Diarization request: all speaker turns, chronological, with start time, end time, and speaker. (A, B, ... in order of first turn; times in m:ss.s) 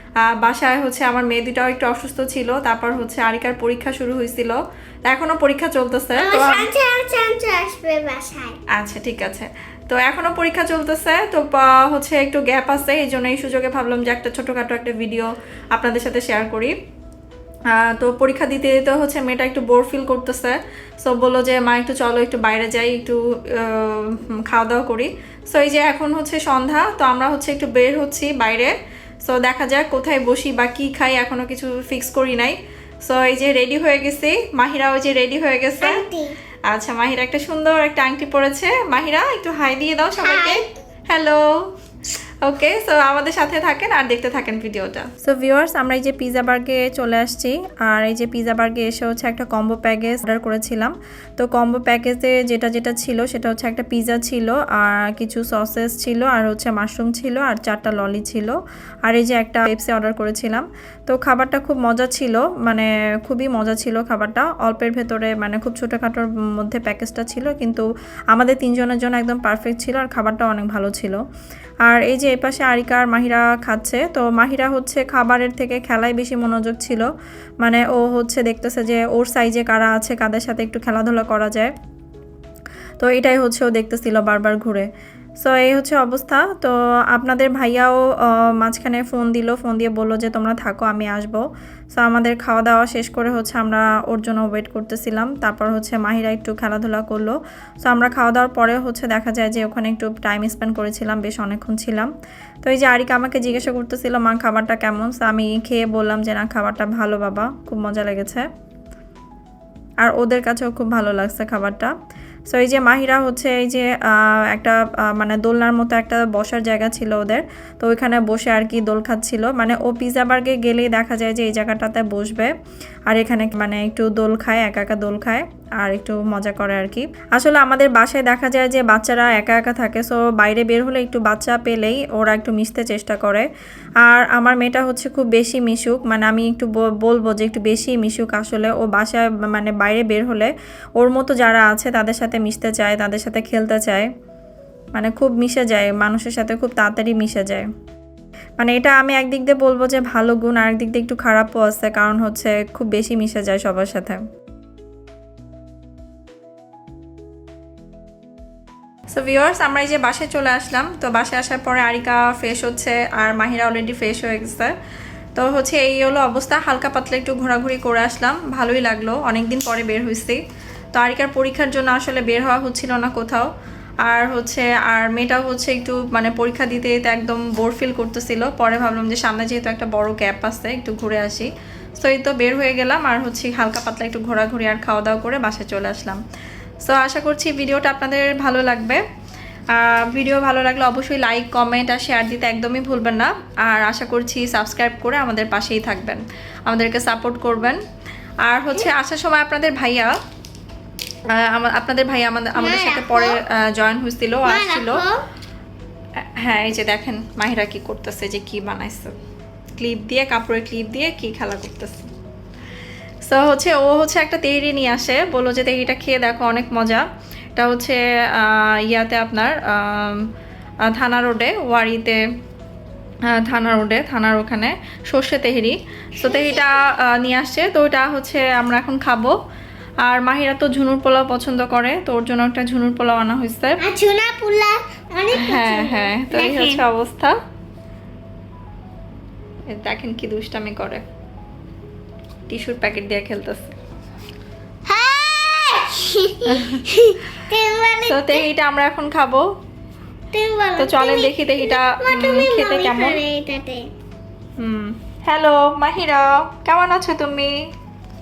0:00.2-0:06.7 A
0:06.2-0:08.6 B
0:08.7-0:16.7 A
0:17.7-0:28.7 A
0:29.3-0:36.0 A
0:35.8-0:36.4 B
0:36.7-0:41.7 A
0:40.2-0:40.7 B
0:42.4-1:11.2 A
1:11.9-1:17.1 A
1:17.6-1:21.7 A
1:23.0-1:24.9 A
1:25.4-1:48.5 A
1:50.0-1:51.9 A
1:52.5-2:02.5 A
2:03.1-2:13.5 A
2:14.0-2:24.1 A
2:25.0-2:27.7 A
2:28.6-2:34.2 A
2:39.1-2:44.7 A
2:45.4-2:50.4 A
2:50.9-2:53.5 A
2:54.0-3:06.2 A
3:06.9-3:09.0 A
3:09.7-3:17.8 A
3:18.5-3:20.2 A
3:21.3-3:25.0 A
3:22.6-3:23.4 B
3:24.5-3:25.2 B
3:26.4-3:29.1 A
3:29.8-3:32.1 A
3:33.3-3:37.0 A
3:37.6-3:40.3 A
3:40.9-3:42.2 A
3:43.3-3:49.4 A
3:46.2-3:46.7 B
3:50.1-3:53.8 A
3:53.8-3:56.8 B
3:55.3-3:57.4 A
3:59.7-4:01.0 A
4:02.5-4:03.8 A
4:04.9-4:08.5 B
4:06.5-4:06.8 A
4:08.1-4:09.5 A
4:10.3-4:13.9 B
4:10.8-4:13.2 A
4:14.6-4:17.6 A